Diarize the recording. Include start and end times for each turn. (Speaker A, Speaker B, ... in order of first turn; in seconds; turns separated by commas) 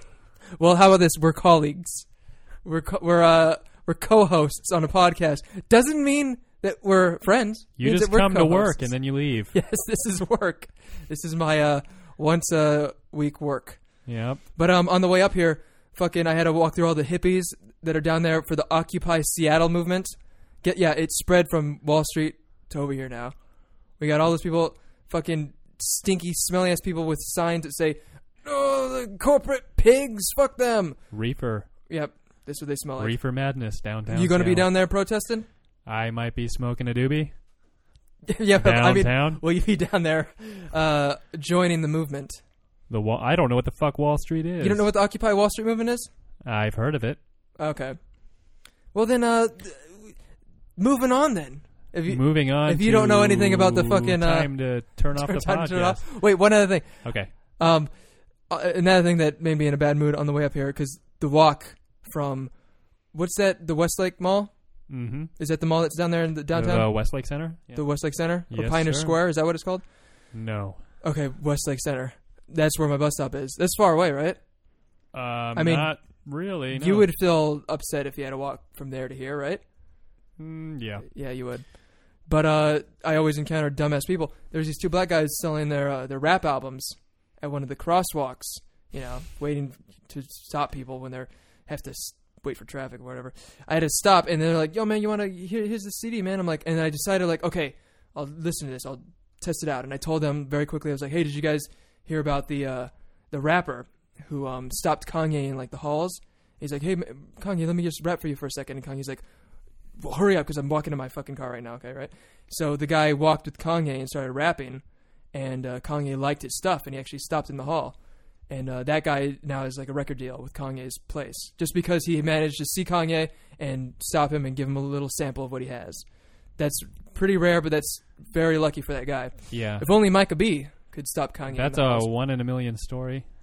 Speaker A: 0.6-31.2, Speaker B: 7.8-9.5, Speaker B: 14.0-14.4, Speaker B: 31.1-31.7, Speaker A: 31.9-33.5, Speaker B: 33.0-34.7, Speaker A: 34.1-35.5, Speaker B: 35.8-37.4, Speaker A: 38.3-42.4, Speaker B: 38.5-39.4, Speaker B: 42.9-44.9, Speaker A: 44.6-46.1, Speaker B: 46.4-47.2, Speaker A: 47.6-50.2, Speaker A: 50.8-70.3, Speaker B: 52.0-56.2, Speaker B: 57.0-57.3, Speaker B: 64.9-65.3, Speaker B: 66.5-69.2, Speaker B: 70.3-70.8, Speaker A: 71.0-74.4, Speaker B: 75.1-77.1, Speaker A: 75.5-80.0, Speaker B: 80.4-81.1, Speaker A: 81.0-109.3, Speaker A: 109.8-132.1, Speaker B: 129.5-129.9, Speaker B: 131.5-133.3